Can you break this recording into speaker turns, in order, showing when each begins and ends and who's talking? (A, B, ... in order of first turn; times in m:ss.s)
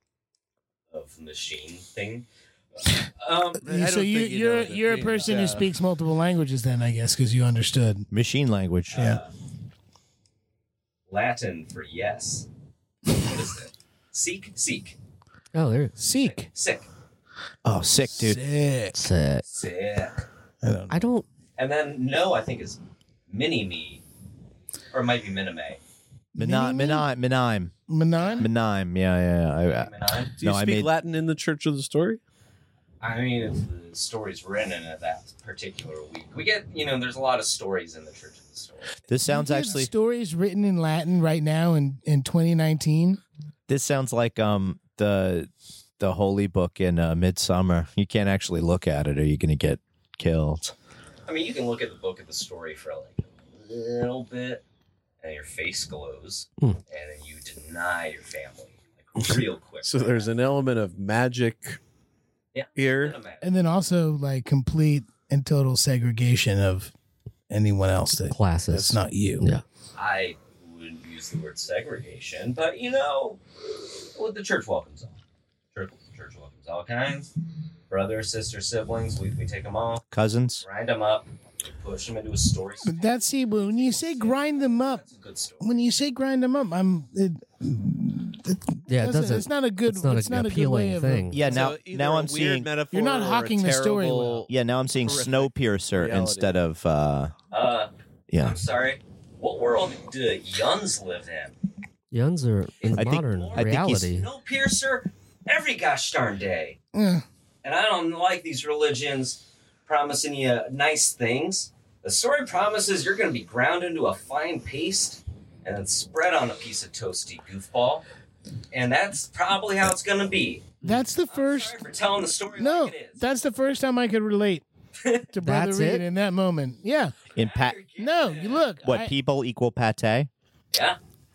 0:00.9-0:03.6 A
0:03.6-0:05.7 B
0:03.6-0:08.1 C
0:08.1-0:09.2 D
0:08.9-0:09.3 A
0:08.9-0:09.2 C
0:11.1-0:12.5 A
0:13.1-0:15.0 A
0:15.5-0:16.0 E
0:16.0-0:16.5 C
0:16.2-0:16.9 A
0:17.6-0:18.4 D
0:18.1-0:19.0 C
0:18.9-0:19.4 E
0:19.4-0:20.2 A
0:20.6-0:21.0 C
0:20.9-0:21.2 E
0:21.6-0:24.0 A
0:24.9-0:25.8 A
0:26.3-0:27.0 C
0:26.4-0:27.7 D
0:27.9-0:28.5 C
0:28.2-0:28.5 A
0:28.4-0:30.9 D
0:29.6-0:30.3 A
0:30.4-0:32.2 B
0:33.0-0:39.0 A
0:39.1-0:39.9 D
0:39.3-0:43.2 C
0:43.7-0:50.7 D
0:51.3-0:54.6 A
0:55.2-1:00.3 A
0:59.2-1:01.8 B
1:02.5-1:03.5 A
1:02.8-1:03.2 B
1:03.4-1:06.9 C
1:07.5-1:09.5 C
1:08.3-1:09.6 E
1:10.0-1:13.4 A
1:14.1-1:15.2 A
1:15.7-1:17.3 A
1:17.9-1:20.0 A
1:20.1-1:20.6 D
1:20.6-1:25.7 A
1:22.8-1:25.0 C
1:25.6-1:31.7 C
1:28.9-1:31.4 E
1:31.3-1:32.7 D
1:31.4-1:34.5 B
1:32.9-1:34.5 C
1:34.5-1:37.3 D
1:35.0-1:36.5 B
1:37.5-1:41.5 A
1:38.3-1:38.6 D
1:42.1-1:44.3 E
1:42.8-1:46.8 A
1:43.0-1:44.1 D
1:46.9-1:47.2 C
1:47.6-1:58.0 A
1:58.7-2:03.2 A
2:00.8-2:01.8 C
2:02.5-2:04.6 C
2:05.0-2:05.3 A
2:05.3-2:07.2 C
2:05.4-2:06.0 E
2:07.3-2:08.7 A
2:07.4-2:07.8 D
2:08.0-2:09.1 C
2:08.8-2:10.3 D
2:10.7-2:11.0 A